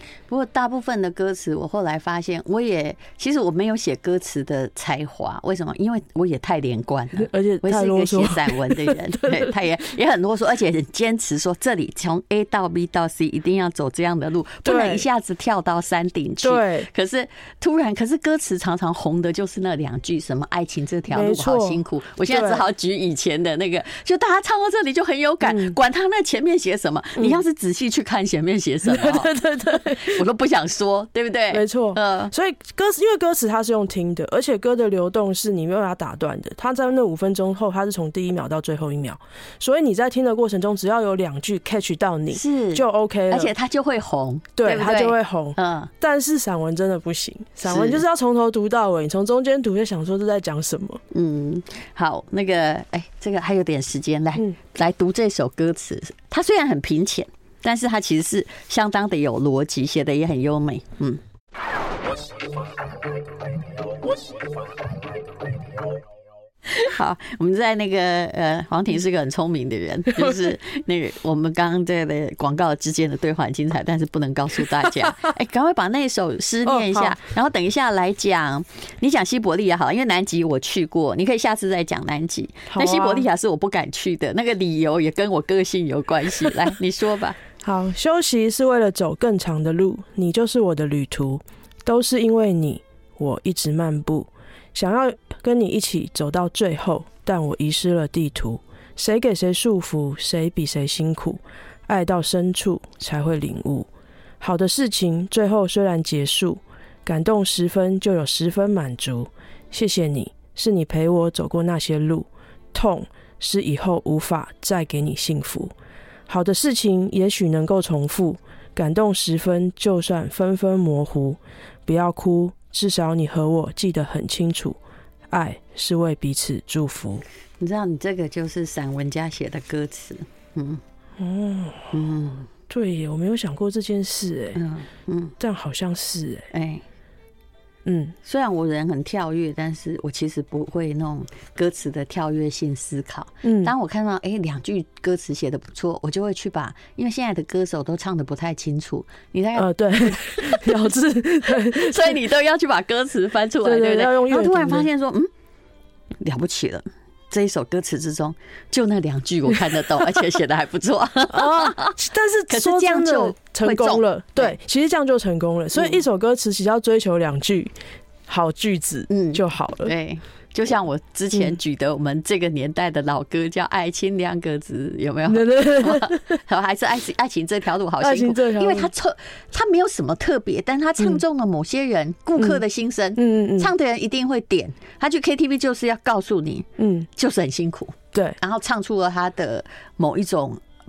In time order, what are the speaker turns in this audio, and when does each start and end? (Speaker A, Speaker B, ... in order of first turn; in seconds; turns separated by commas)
Speaker A: 0.3-32.3, Speaker B: 7.2-9.5, Speaker B: 14.6-15.0, Speaker B: 16.4-16.9, Speaker B: 21.1-22.6, Speaker B: 25.4-25.8, Speaker B: 28.9-30.2, Speaker B: 31.5-43.5, Speaker A: 42.3-45.9, Speaker B: 44.6-51.0, Speaker A: 47.6-48.0, Speaker A: 51.1-61.2, Speaker A: 66.7-87.4, Speaker B: 76.6-77.2, Speaker B: 82.7-83.3, Speaker B: 87.6-103.9, Speaker B: 104.4-115.7, Speaker B: 116.3-124.8, Speaker B: 125.3-127.2, Speaker A: 127.6-130.8, Speaker B: 131.2-131.9, Speaker A: 131.9-132.5, Speaker B: 132.7-134.6, Speaker A: 134.5-135.3, Speaker B: 135.4-136.4, Speaker A: 136.5-136.8, Speaker B: 137.8-138.1, Speaker A: 138.2-150.9, Speaker B: 143.4-143.7, Speaker B: 149.6-152.2, Speaker A: 151.6-155.3, Speaker B: 153.6-154.9, Speaker A: 156.2-164.6, Speaker B: 161.3-167.7, Speaker A: 165.7-166.0, Speaker B: 168.3-169.9, Speaker A: 169.1-190.6, Speaker B: 175.3-176.4, Speaker B: 178.0-178.9, Speaker B: 183.2-183.7, Speaker B: 186.8-187.1